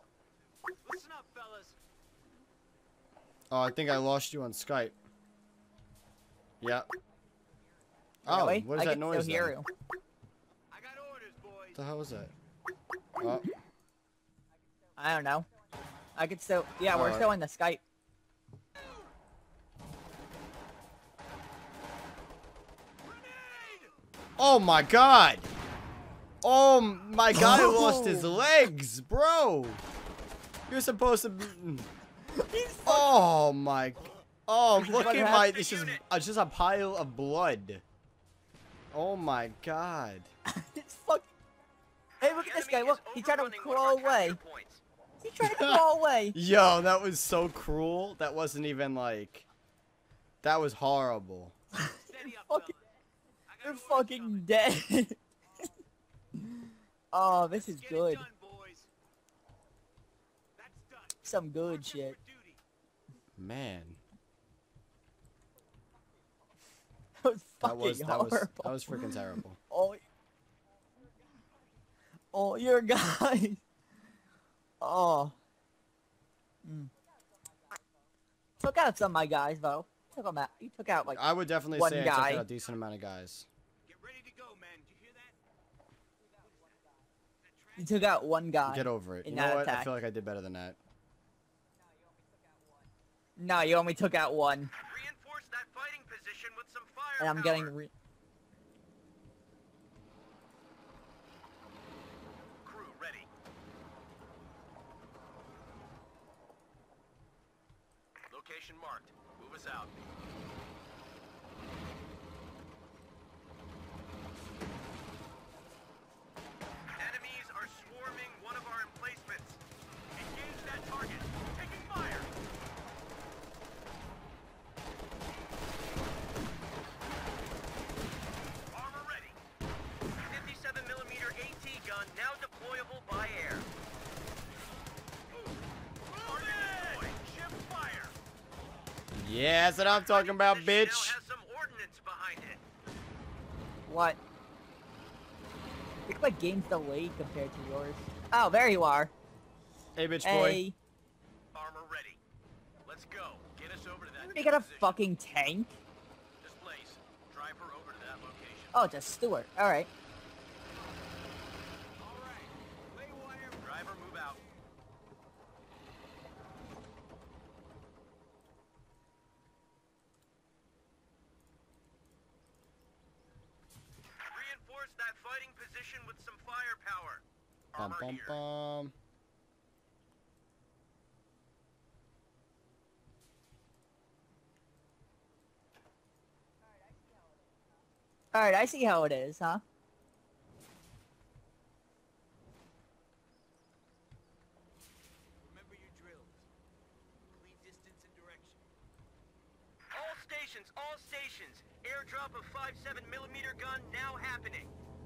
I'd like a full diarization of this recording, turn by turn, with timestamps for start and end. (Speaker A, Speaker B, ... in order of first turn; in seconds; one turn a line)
Speaker A: 0.8-1.8
Speaker B: 3.5-5.0
Speaker B: 6.6-6.9
Speaker B: 8.2-9.6
Speaker C: 8.3-9.7
Speaker A: 10.7-11.8
Speaker B: 11.7-12.3
Speaker B: 13.2-13.5
Speaker C: 15.0-15.5
Speaker C: 16.2-17.8
Speaker B: 16.9-17.3
Speaker A: 23.0-23.9
Speaker B: 24.4-25.5
Speaker B: 26.4-29.8
Speaker C: 27.3-28.5
Speaker B: 30.7-31.9
Speaker C: 32.3-33.2
Speaker B: 32.9-37.8
Speaker C: 34.8-35.5
Speaker D: 35.3-36.0
Speaker B: 38.9-40.3
Speaker C: 40.5-41.3
Speaker C: 42.2-44.4
Speaker D: 42.2-44.8
Speaker C: 45.2-46.4
Speaker B: 45.4-49.5
Speaker B: 50.4-51.5
Speaker C: 51.8-52.7
Speaker A: 52.0-52.9
Speaker A: 53.5-54.5
Speaker C: 53.6-55.2
Speaker C: 56.4-58.3
Speaker A: 57.4-58.9
Speaker A: 60.5-62.6
Speaker C: 61.2-62.2
Speaker B: 63.4-64.0
Speaker C: 67.2-70.0
Speaker B: 67.6-69.6
Speaker C: 72.3-73.6
Speaker C: 74.8-75.4
Speaker C: 76.6-76.9
Speaker C: 78.6-82.5
Speaker B: 81.1-83.5
Speaker A: 83.9-85.4
Speaker A: 87.4-88.3
Speaker C: 87.8-89.9
Speaker B: 88.7-90.8
Speaker C: 93.4-94.7
Speaker D: 94.8-97.7
Speaker C: 97.2-97.9
Speaker D: 102.6-103.3
Speaker D: 108.3-109.9
Speaker D: 117.0-119.6
Speaker D: 120.2-122.3
Speaker A: 128.7-129.4
Speaker D: 130.3-133.7
Speaker A: 136.1-138.2
Speaker D: 136.2-137.2
Speaker B: 139.1-141.2
Speaker D: 139.8-142.6
Speaker C: 143.9-144.2
Speaker C: 146.1-149.1
Speaker B: 150.0-150.6
Speaker C: 150.2-150.8
Speaker D: 151.5-152.2
Speaker D: 152.9-155.0
Speaker C: 154.2-155.8
Speaker D: 156.4-158.7
Speaker C: 158.7-159.9
Speaker A: 162.0-164.1
Speaker D: 163.6-164.4
Speaker D: 174.3-178.4
Speaker B: 177.8-178.9
Speaker C: 188.3-189.6
Speaker A: 195.4-196.5
Speaker A: 197.3-198.6
Speaker D: 199.9-204.7